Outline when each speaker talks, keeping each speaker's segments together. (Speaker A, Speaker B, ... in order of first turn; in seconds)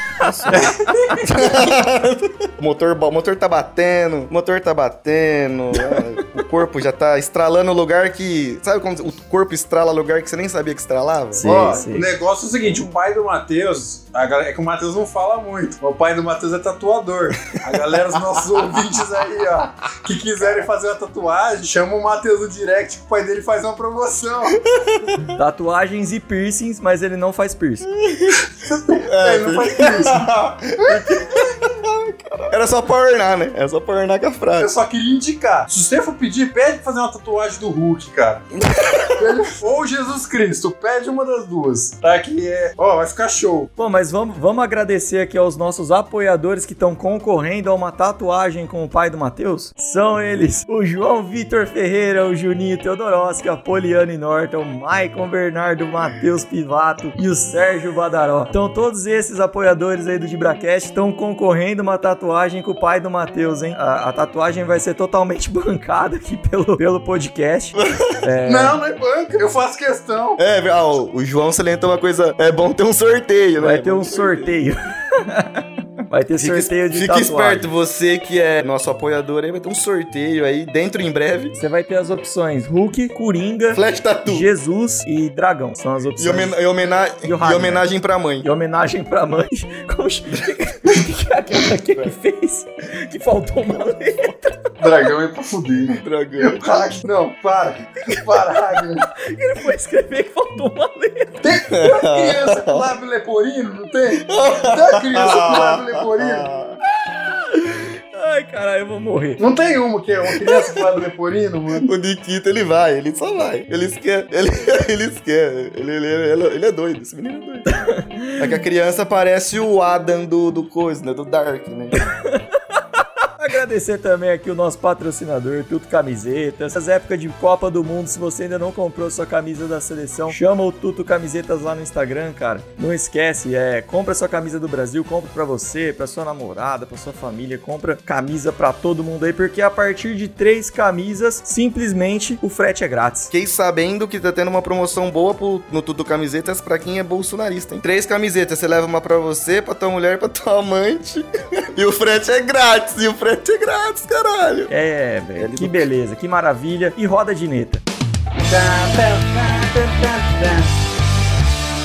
Speaker A: 0.2-0.7, 1.2-11.9, 24.7-25.2, 27.9-34.7, 38.5-39.3, 67.8-68.2, 70.4-74.6, 76.3-81.6, 83.7-84.5, 86.2-88.5, 96.0-97.0, 101.7-102.8, 104.2-106.8, 110.3-110.9, 111.8-117.7, 118.4-122.0, 143.3-154.7, 155.4-155.9
Speaker B: 0.2-1.1, 11.3-12.1, 25.3-27.9, 43.8-68.8, 73.6-77.7, 81.6-86.6, 87.2-87.8, 88.4-94.8, 99.2-101.5, 107.0-109.4, 117.7-118.5, 122.0-122.4, 123.4-143.3, 154.7-157.8
Speaker C: 0.5-1.3, 11.4-24.6, 28.3-31.6, 34.6-38.4, 39.1-43.7, 68.5-70.4, 94.8-99.1, 101.4-106.5, 109.4-111.9, 158.4-160.8